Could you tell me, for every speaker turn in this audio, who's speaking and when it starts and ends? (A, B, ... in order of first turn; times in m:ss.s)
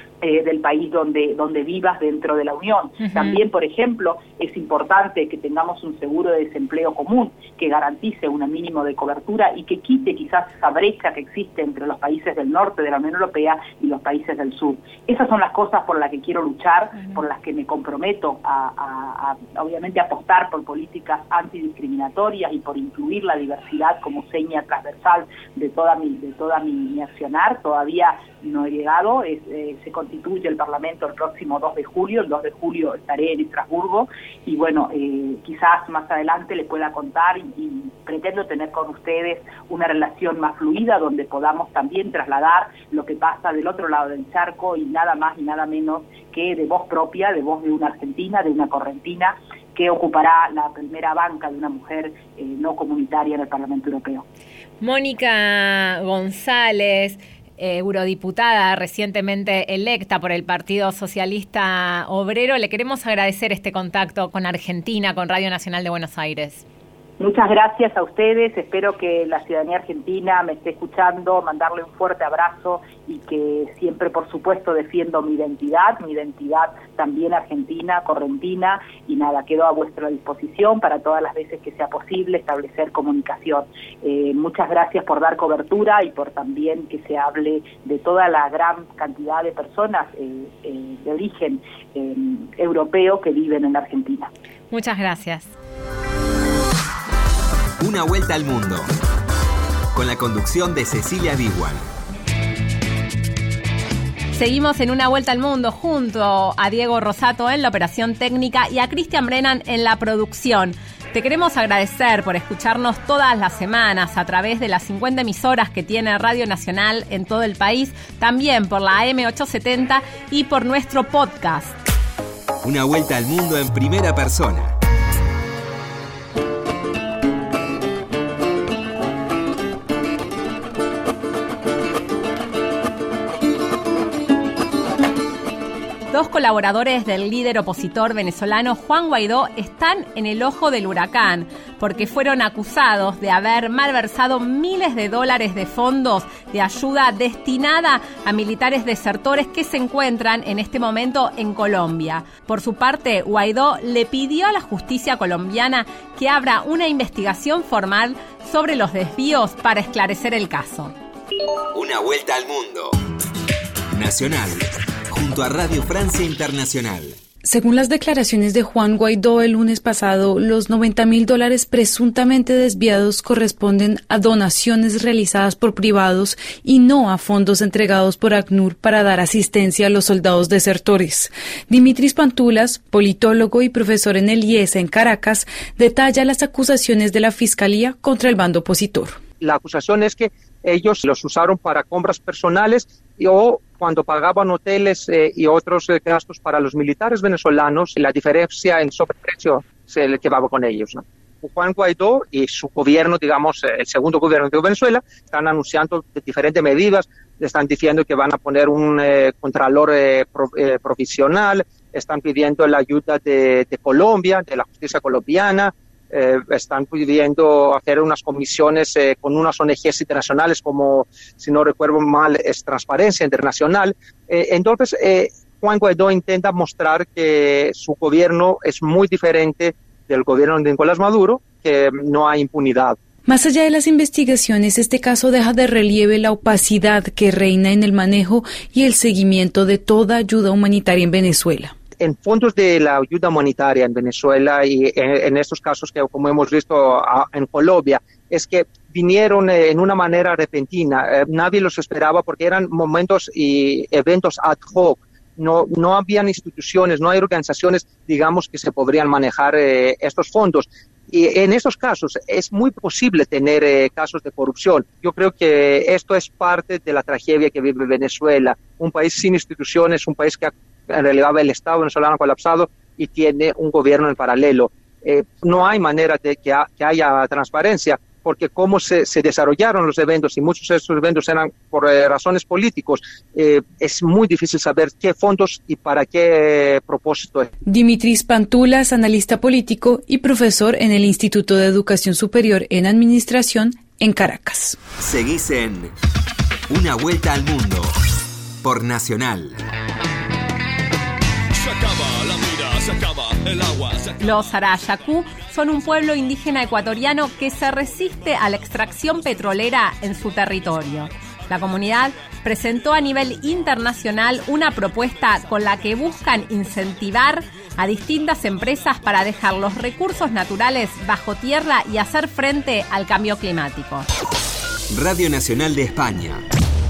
0:00.2-0:54.2 A
0:54.8-1:06.6 B
1:07.2-1:34.3 A
1:34.7-1:35.5 B
1:37.8-1:38.9 C
1:39.9-1:41.8 C
1:44.3-2:01.7 B
2:02.6-2:04.7 C
2:16.1-2:40.9 B
2:41.7-2:42.9 C
2:43.9-2:47.2 C
2:47.4-3:09.2 D
3:09.4-3:53.0 E
3:53.2-4:01.7 D
4:02.0-4:47.5 E
4:47.6-4:54.8 D
4:54.9-4:55.9 C
4:56.7-4:57.9 C
4:58.6-4:59.6 C
5:01.8-5:03.9 F
5:04.2-5:24.0 B
5:24.9-5:26.4 C